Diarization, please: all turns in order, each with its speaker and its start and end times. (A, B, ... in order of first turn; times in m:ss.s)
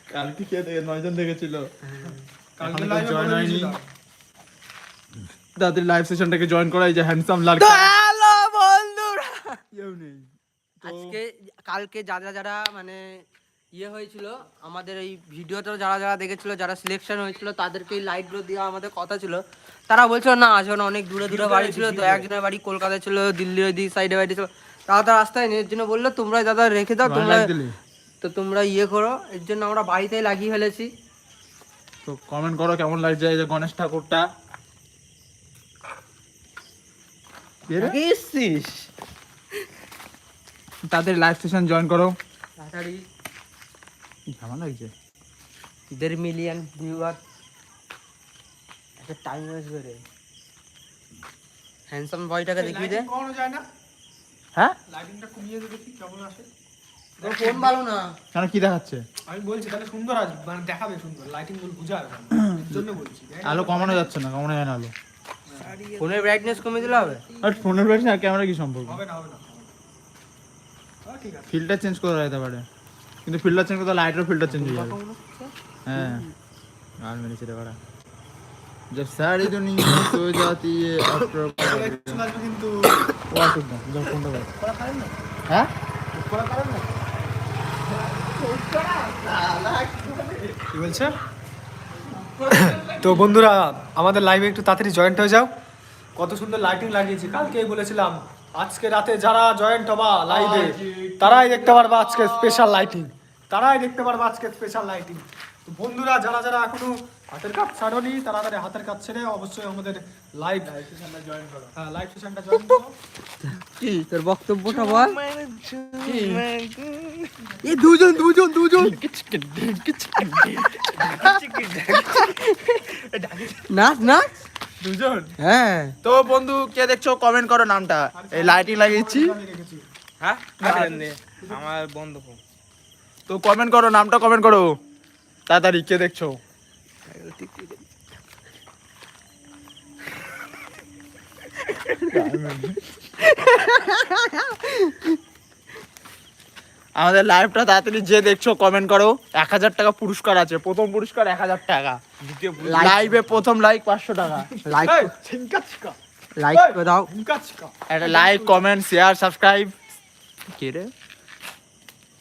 0:00.1-0:01.7 A
0:01.8-0:02.2 B
0:02.1-0:03.8 C
0:02.6-0:03.7 A
0:05.6-0:07.9 A
0:07.6-0:09.6 B
0:09.7-0:10.3 A
0:10.8-0:11.2 A
0:10.8-0:13.2 B
0:13.7-0:27.5 B
0:21.3-0:22.2 D
0:27.0-0:27.7 A
0:28.2-0:30.9 B
0:32.1-0:34.3 A
0:37.7-0:38.0 A
0:37.8-0:38.9 B
0:40.9-0:42.2 A
0:42.6-0:43.0 B
0:44.4-0:44.9 A
0:45.9-0:47.2 B
0:49.0-0:50.0 B
0:51.9-0:53.1 B
0:52.6-0:53.6 C
0:54.9-0:56.5 C
0:57.2-0:57.8 C
0:57.2-0:58.2 B
0:58.3-0:59.0 A
0:59.3-1:04.1 C
1:02.4-1:02.7 A
1:03.4-1:04.9 A
1:05.6-1:07.4 D
1:06.0-1:07.2 B
1:07.4-1:09.0 A
1:08.9-1:09.7 C
1:11.0-1:11.5 C
1:11.5-1:12.6 A
1:13.3-1:15.0 A
1:14.5-1:16.3 B
1:15.9-1:16.2 A
1:17.0-1:17.8 A
1:18.9-1:22.2 A
1:21.6-1:23.0 C
1:23.3-1:24.5 A
1:24.6-1:25.1 C
1:26.2-1:26.9 C
1:28.1-1:30.7 A
1:30.7-1:31.1 C
1:32.1-1:33.2 A
1:32.5-1:35.5 C
1:36.2-1:50.7 C
1:40.3-1:42.8 A
1:50.6-1:51.7 A
1:51.8-1:52.9 C
1:53.4-1:55.2 B
1:53.8-1:54.1 A
1:54.7-1:57.2 D
1:56.0-1:56.4 B
1:57.6-1:59.0 B
1:58.8-2:01.3 A
2:01.0-2:02.4 D
2:03.2-2:03.6 A
2:03.7-2:04.3 B
2:04.8-2:05.3 A
2:05.4-2:05.9 B
2:06.0-2:09.3 A
2:08.2-2:09.8 C
2:10.2-2:12.4 D
2:10.6-2:10.9 A
2:10.8-2:11.6 C
2:13.3-2:14.7 A
2:15.5-2:16.4 A
2:17.1-2:17.8 B
2:21.7-2:22.3 B
2:22.1-2:22.8 A
2:23.2-2:25.2 B
2:27.0-2:32.0 A
2:32.2-2:33.2 D
2:32.6-2:33.1 B
2:32.7-2:34.5 A
2:34.7-2:35.1 B
2:34.8-2:36.0 C
2:36.4-2:37.1 B
2:36.5-2:38.6 C
2:37.9-2:39.8 A
2:40.5-2:40.9 A